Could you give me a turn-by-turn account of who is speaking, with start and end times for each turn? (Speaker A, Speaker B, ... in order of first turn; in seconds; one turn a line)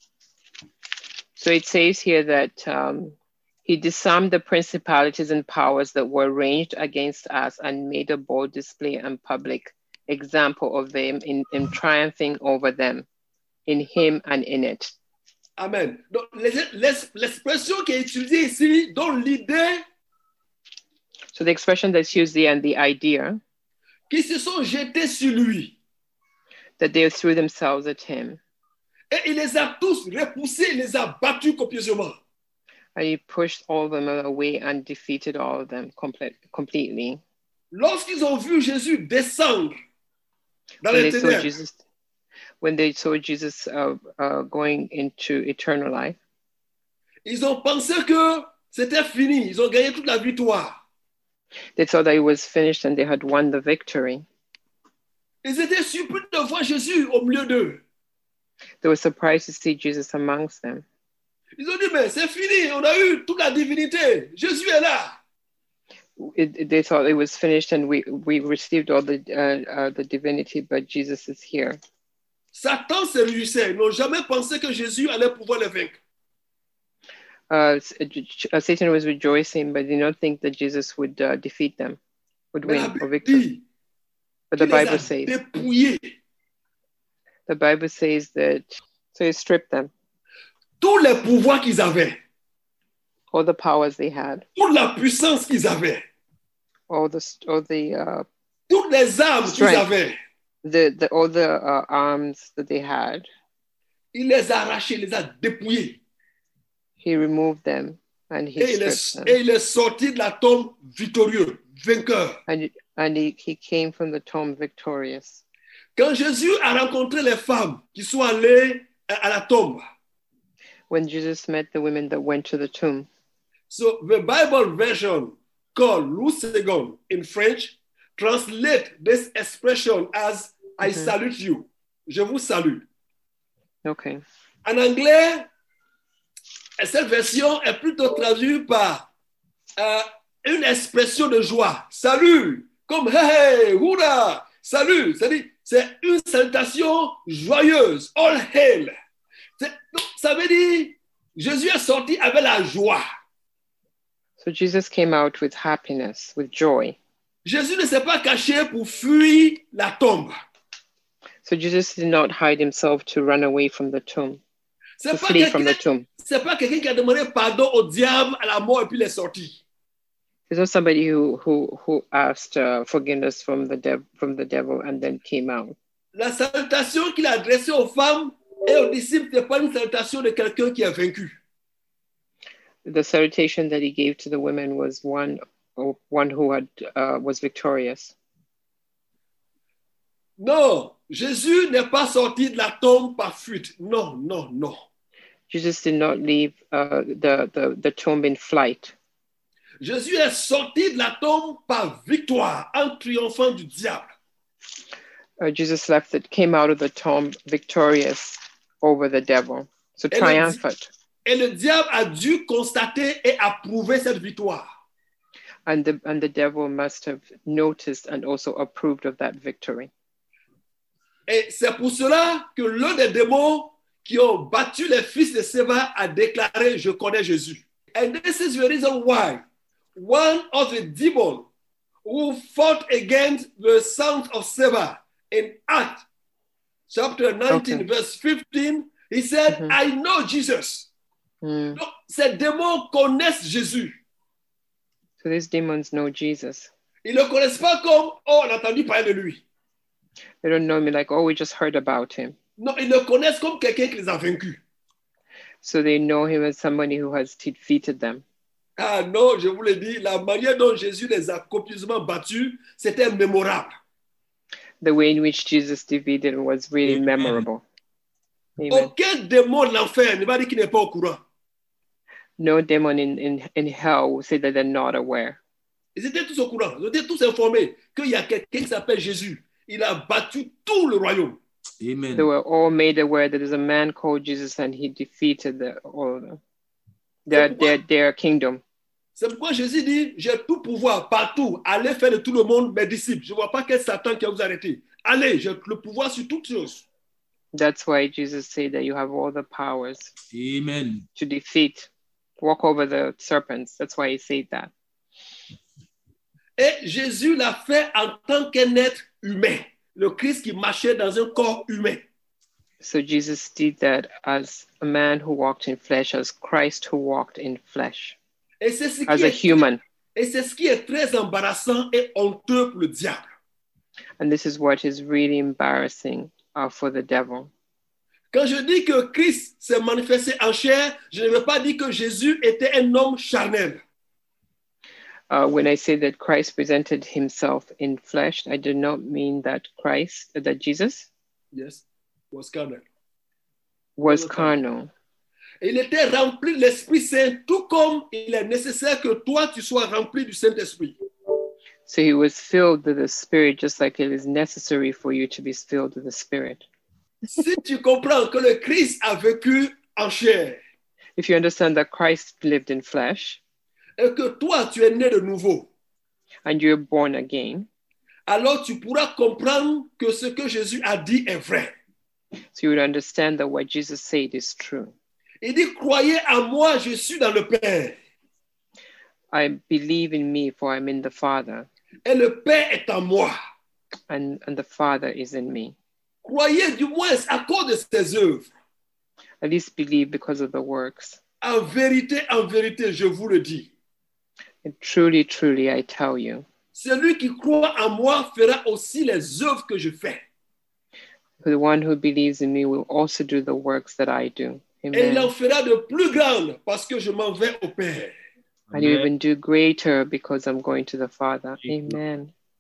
Speaker A: 1.4-13.1
Speaker A: 13.7-14.9
Speaker B: 15.6-19.8
Speaker A: 21.3-23.4
Speaker B: 24.1-25.8
Speaker A: 26.8-28.4
Speaker B: 29.1-32.2
Speaker A: 32.9-37.2
Speaker B: 37.7-39.7
Speaker B: 40.8-41.5
Speaker A: 40.9-41.8
Speaker A: 42.6-46.2
Speaker B: 47.2-50.7
Speaker A: 51.7-54.2
Speaker B: 55.4-57.8
Speaker A: 58.8-60.8
Speaker B: 61.6-65.2
Speaker A: 66.2-71.8
Speaker B: 72.5-76.0
Speaker A: 77.5-82.0
Speaker A: 82.5-83.5
Speaker B: 82.6-83.6
Speaker A: 84.5-85.3
Speaker B: 84.6-86.1
Speaker A: 87.5-89.9
Speaker B: 90.8-92.2
Speaker A: 93.3-94.4
Speaker B: 94.5-96.0
Speaker A: 96.9-98.3
Speaker B: 98.7-100.2
Speaker A: 99.4-99.9
Speaker A: 100.6-103.3
Speaker B: 104.1-106.0
Speaker A: 107.0-109.4
Speaker B: 108.6-112.4
Speaker A: 112.5-115.4
Speaker B: 116.0-119.8
Speaker A: 120.9-123.1
Speaker B: 123.7-132.8
Speaker A: 130.8-131.1
Speaker A: 133.8-134.2
Speaker B: 134.6-135.5
Speaker B: 136.8-139.0
Speaker B: 139.8-148.9
Speaker B: 149.6-153.0
Speaker A: 154.4-157.0
Speaker B: 157.4-160.3
Speaker A: 161.4-164.4
Speaker B: 165.0-169.6
Speaker A: 165.1-166.1
Speaker A: 170.5-175.8
Speaker B: 176.1-181.3
Speaker A: 182.8-188.1
Speaker B: 190.4-194.8
Speaker A: 195.5-198.9
Speaker B: 199.8-204.1
Speaker A: 205.4-210.9
Speaker B: 210.1-210.6
Speaker B: 211.2-214.6
Speaker A: 215.7-219.9
Speaker B: 221.3-229.4
Speaker B: 229.9-231.5
Speaker B: 232.0-236.0
Speaker B: 236.9-240.9
Speaker A: 237.5-237.8
Speaker A: 239.5-239.8
Speaker A: 241.4-241.8
Speaker B: 241.8-243.9
Speaker A: 245.2-246.7
Speaker B: 247.0-249.4
Speaker A: 250.4-252.4
Speaker B: 252.6-254.6
Speaker A: 255.6-258.2
Speaker B: 258.8-263.7
Speaker A: 264.8-267.6
Speaker C: 266.8-267.4
Speaker A: 268.6-268.9
Speaker B: 268.7-271.2
Speaker A: 272.4-275.4
Speaker B: 275.9-281.4
Speaker C: 281.8-282.3
Speaker A: 282.1-286.4
Speaker A: 287.2-288.6
Speaker B: 287.3-287.8
Speaker B: 289.2-296.8
Speaker A: 297.5-300.1
Speaker C: 300.3-301.1
Speaker A: 301.2-304.7
Speaker B: 306.6-312.0
Speaker A: 312.8-318.2
Speaker B: 318.6-319.6
Speaker A: 319.1-319.8
Speaker B: 320.1-323.2
Speaker A: 324.2-327.5
Speaker B: 328.3-333.8
Speaker A: 335.3-341.1
Speaker B: 341.5-342.8
Speaker A: 344.0-344.9
Speaker B: 344.0-344.6
Speaker B: 345.6-350.9
Speaker A: 351.9-356.6
Speaker B: 357.3-360.6
Speaker A: 361.2-363.4
Speaker B: 364.0-365.7
Speaker A: 366.4-367.7
Speaker B: 368.3-371.7
Speaker A: 372.5-374.9
Speaker B: 375.4-377.9
Speaker A: 379.3-381.7
Speaker B: 382.0-383.3
Speaker A: 384.1-385.7
Speaker B: 386.2-388.5
Speaker A: 389.4-391.2
Speaker B: 391.4-393.7
Speaker A: 394.6-396.4
Speaker B: 396.7-400.2
Speaker A: 401.4-405.3
Speaker B: 404.9-408.1
Speaker C: 408.7-409.1
Speaker A: 408.7-412.3
Speaker C: 411.6-412.0